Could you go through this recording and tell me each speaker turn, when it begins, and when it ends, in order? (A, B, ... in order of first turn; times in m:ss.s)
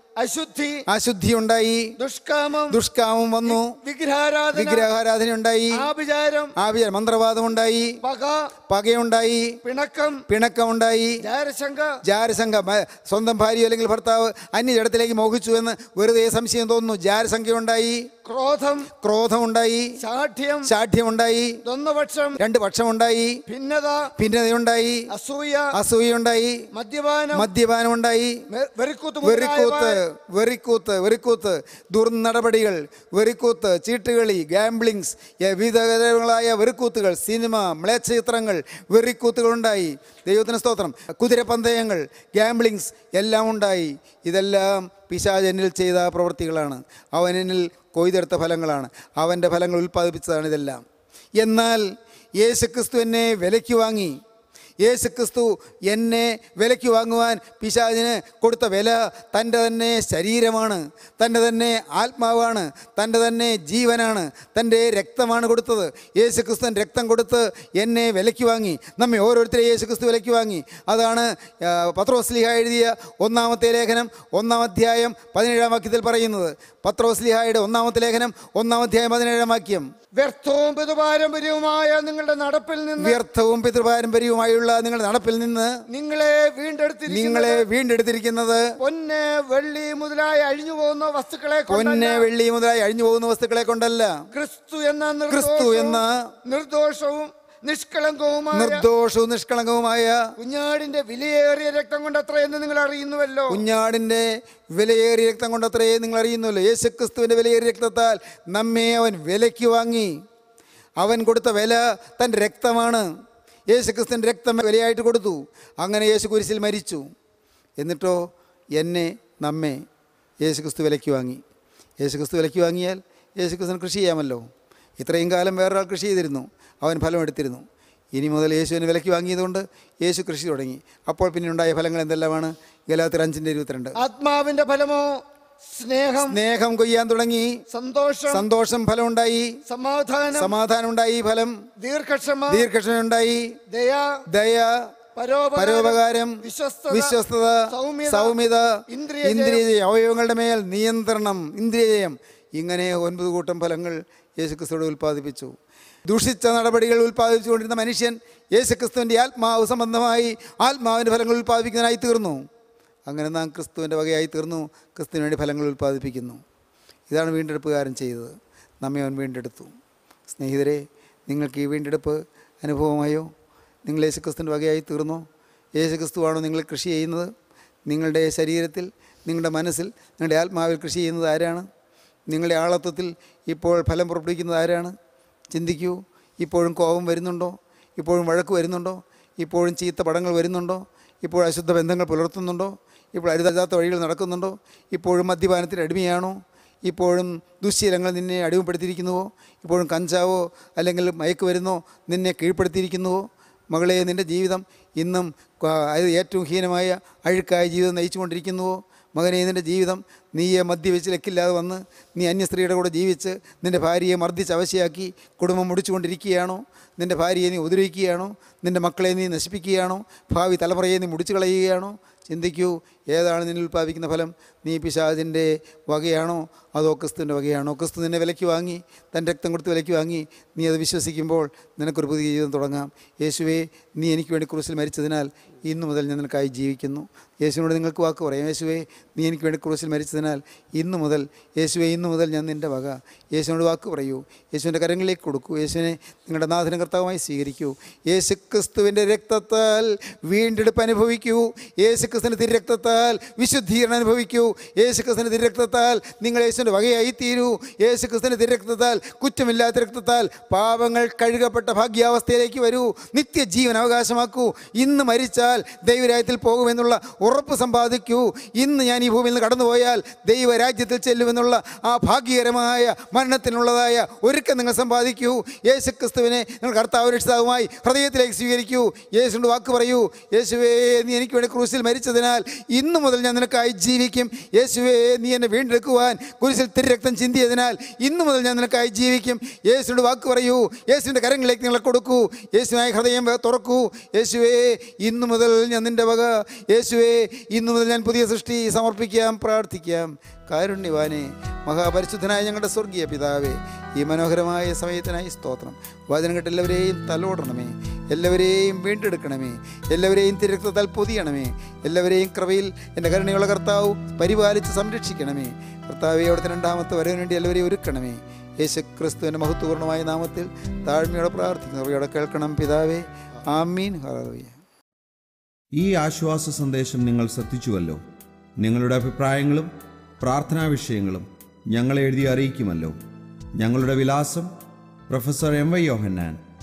0:00.2-0:00.8 A
0:00.9-0:01.9 B
0:02.0-0:02.8 A
0:02.7-0:03.7 B
0:03.5-0:04.9 A
0:04.5-0:05.9 B
0:05.7-0:06.5 A
0:06.6-0:08.0 B
0:08.0-0:08.5 A
0:08.7-0:09.6 B
0:09.6-0:10.2 A
0:10.3-0:11.2 B
0:11.2-0:12.0 A
0:12.0-0:18.1 B
0:18.2-0:18.9 A
0:18.9-0:20.0 B
0:20.0-0:20.7 A
0:20.6-0:21.6 B
0:21.6-0:22.4 A
0:22.4-0:23.4 B
0:23.5-0:24.1 A
0:24.2-0:25.1 B
0:25.1-0:25.7 A
0:25.7-0:26.7 B
0:26.7-0:27.5 A
0:27.3-0:28.4 B
0:28.5-0:30.0 A
0:29.2-0:50.8 B
0:51.4-0:51.9 B
0:52.4-0:54.2 B
0:54.8-1:19.9 B
1:20.2-1:23.2 A
1:23.0-1:25.8 B
1:25.9-1:27.6 A
1:27.1-1:28.7 B
1:28.8-1:32.2 A
1:31.7-1:34.2 B
1:34.3-1:38.8 A
1:35.3-1:36.3 B
1:38.5-1:40.2 B
1:40.4-1:43.6 A
1:43.5-1:50.1 B
1:51.0-1:53.1 B
1:53.7-1:57.0 B
1:57.8-1:59.8 B
2:00.4-2:01.4 B
2:02.0-2:04.4 B
2:05.0-2:14.0 B
2:14.0-2:16.4 A
2:16.2-2:17.6 B
2:17.7-2:18.4 A
2:18.3-2:19.6 B
2:19.7-2:20.5 A
2:20.3-2:21.6 B
2:21.8-2:22.7 A
2:22.5-2:23.6 B
2:23.7-2:24.2 A
2:24.3-2:24.9 B
2:25.1-2:27.1 A
2:25.6-2:35.6 B
2:27.7-2:28.4 A
2:28.9-2:29.6 A
2:36.1-2:42.4 B
2:43.1-2:46.4 B
2:47.1-2:49.7 B
2:50.3-2:53.3 B
2:53.8-2:55.2 B
2:55.8-2:57.3 B
2:57.9-3:01.6 B
3:02.3-3:04.9 B
3:05.5-5:24.6 B
5:25.7-5:28.0 C
5:28.6-5:33.0 C
5:33.6-5:34.5 C
5:35.1-5:36.4 C